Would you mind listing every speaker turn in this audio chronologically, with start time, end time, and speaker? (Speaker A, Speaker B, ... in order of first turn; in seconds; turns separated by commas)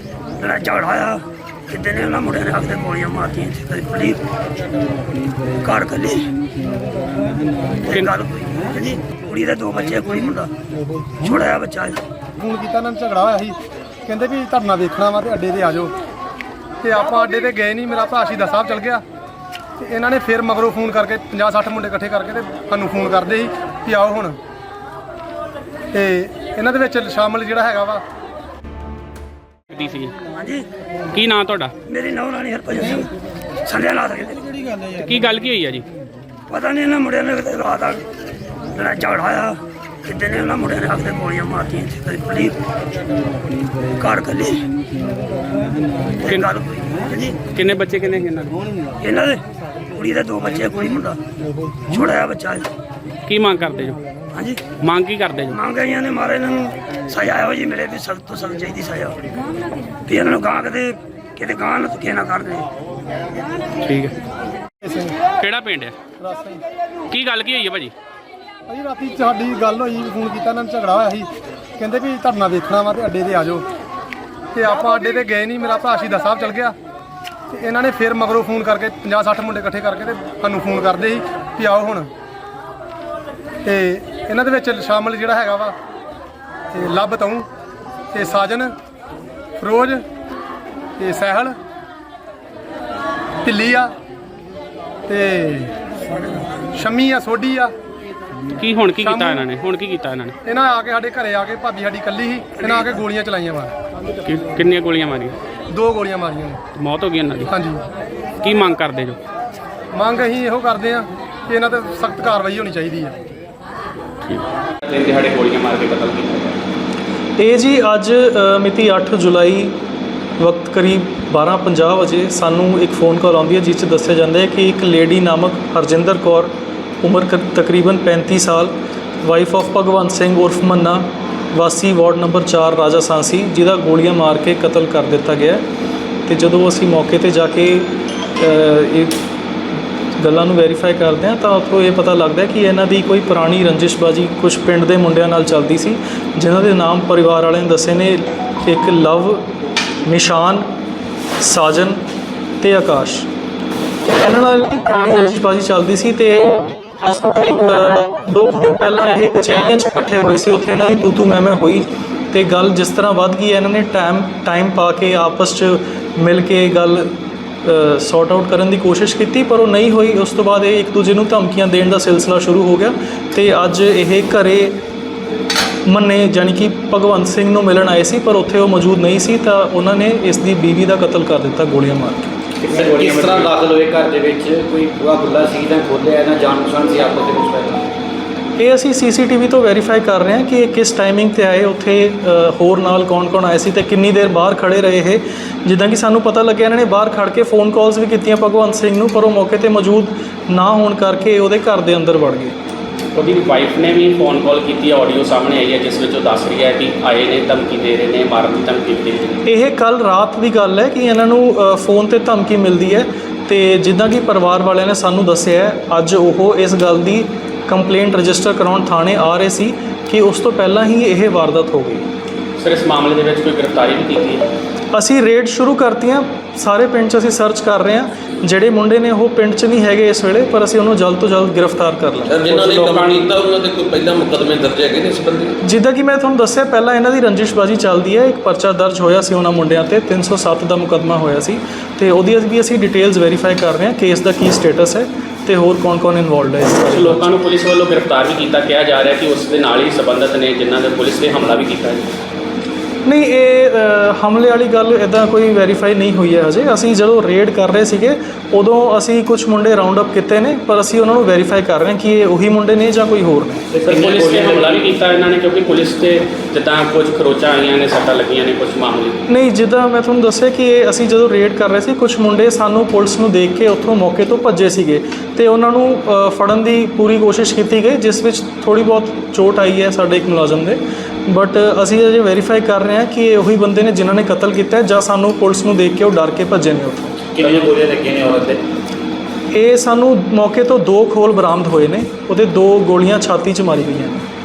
Speaker A: 0.4-4.2, Speaker A: 5.6-6.3, Speaker A: 7.8-10.5, Speaker A: 11.2-12.0, Speaker B: 12.3-15.9, Speaker B: 16.8-19.0, Speaker B: 19.8-24.4, Speaker B: 25.9-28.0, Speaker C: 29.7-30.1, Speaker A: 30.3-30.7, Speaker C: 31.1-31.7, Speaker A: 31.9-33.1, Speaker A: 33.6-34.5, Speaker C: 35.0-35.9, Speaker A: 36.5-38.0, Speaker A: 38.7-42.5, Speaker A: 44.0-44.6, Speaker A: 46.2-47.4, Speaker C: 47.5-48.6, Speaker A: 49.0-49.4, Speaker A: 49.9-51.2, Speaker A: 51.9-52.7, Speaker C: 53.3-54.0, Speaker A: 54.3-54.6, Speaker C: 54.8-55.6, Speaker A: 55.5-59.3, Speaker A: 60.1-62.7, Speaker C: 63.8-64.2, Speaker B: 64.8-65.2, Speaker C: 65.4-66.0, Speaker B: 66.2-66.6, Speaker C: 67.1-67.9, Speaker B: 68.7-73.7, Speaker B: 74.5-76.8, Speaker B: 77.5-82.1, Speaker B: 83.6-85.8, Speaker B: 86.7-87.5, Speaker B: 88.1-88.7, Speaker B: 89.6-90.0, Speaker B: 91.0-91.6, Speaker B: 93.4-93.9, Speaker B: 95.1-95.7, Speaker B: 96.7-97.7, Speaker C: 98.5-100.3, Speaker B: 99.0-99.5, Speaker B: 100.4-103.7, Speaker C: 104.2-105.4, Speaker B: 105.7-106.6, Speaker C: 106.8-107.5, Speaker B: 107.5-107.8, Speaker C: 108.4-109.2, Speaker B: 109.9-113.2, Speaker C: 114.2-116.6, Speaker D: 117.4-119.8, Speaker D: 120.4-135.6, Speaker D: 136.3-139.2, Speaker D: 140.2-149.5, Speaker D: 150.1-150.7, Speaker D: 151.4-152.0, Speaker D: 152.6-153.3, Speaker D: 154.1-174.8, Speaker D: 175.9-182.3, Speaker E: 182.6-187.9, Speaker C: 182.7-183.5, Speaker D: 188.6-202.6, Speaker C: 203.2-209.4, Speaker D: 209.4-222.1, Speaker C: 222.6-224.5, Speaker D: 224.9-232.3, Speaker F: 232.3-235.6, Speaker C: 232.4-233.2, Speaker D: 235.6-247.3, Speaker C: 246.8-252.1, Speaker D: 253.1-263.6, Speaker E: 263.7-264.9, Speaker C: 263.8-269.2, Speaker D: 269.3-287.2, Speaker E: 287.4-288.6, Speaker D: 289.5-294.3